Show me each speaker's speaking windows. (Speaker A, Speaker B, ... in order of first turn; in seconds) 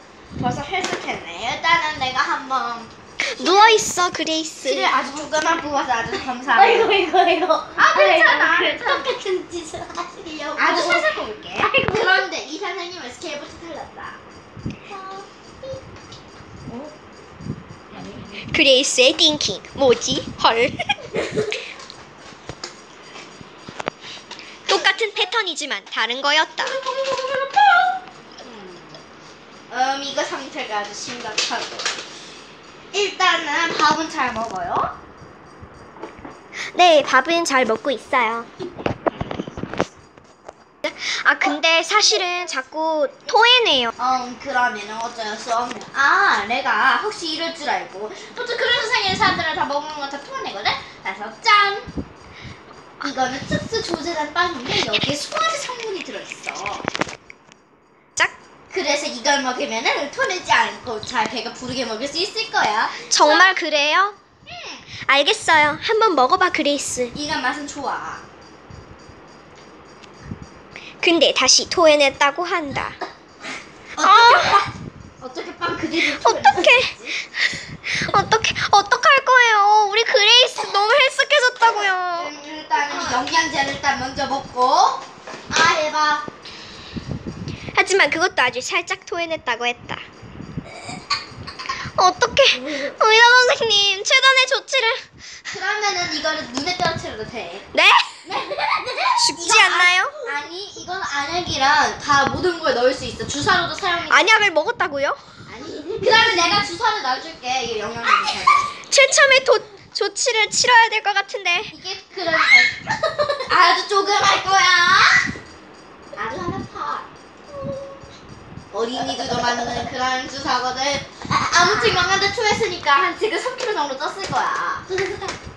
Speaker A: 0.4-2.9, 4.6-6.9, 7.8-9.1, 10.6-14.2, 17.9-18.4, 26.6-29.0, 29.7-31.9, 32.9-34.9, 44.0-51.9, 53.0-56.9, 58.7-63.5, 64.5-64.8, 67.1-68.2, 74.0-74.7, 75.2-77.2, 81.7-86.3, 95.5-97.7, 99.4-104.3, 105.5-108.7, 111.7-112.7, 113.5-115.3, 116.2-117.1, 118.7-124.9
Speaker B: 3.2-4.9, 18.4-20.9, 24.6-26.8, 36.5-38.5, 40.8-43.9, 63.0-64.2, 65.0-67.1, 71.0-73.0, 74.0-74.6, 76.2-82.3, 87.7-90.0, 91.9-95.0, 97.7-98.1, 99.2-100.2, 104.1-105.2, 108.8-111.7
Speaker C: 3.4-3.8, 6.5-12.2, 14.9-15.8, 98.2-99.7, 105.9-106.1, 112.9-113.3, 117.5-118.0, 121.3-122.2, 124.9-125.3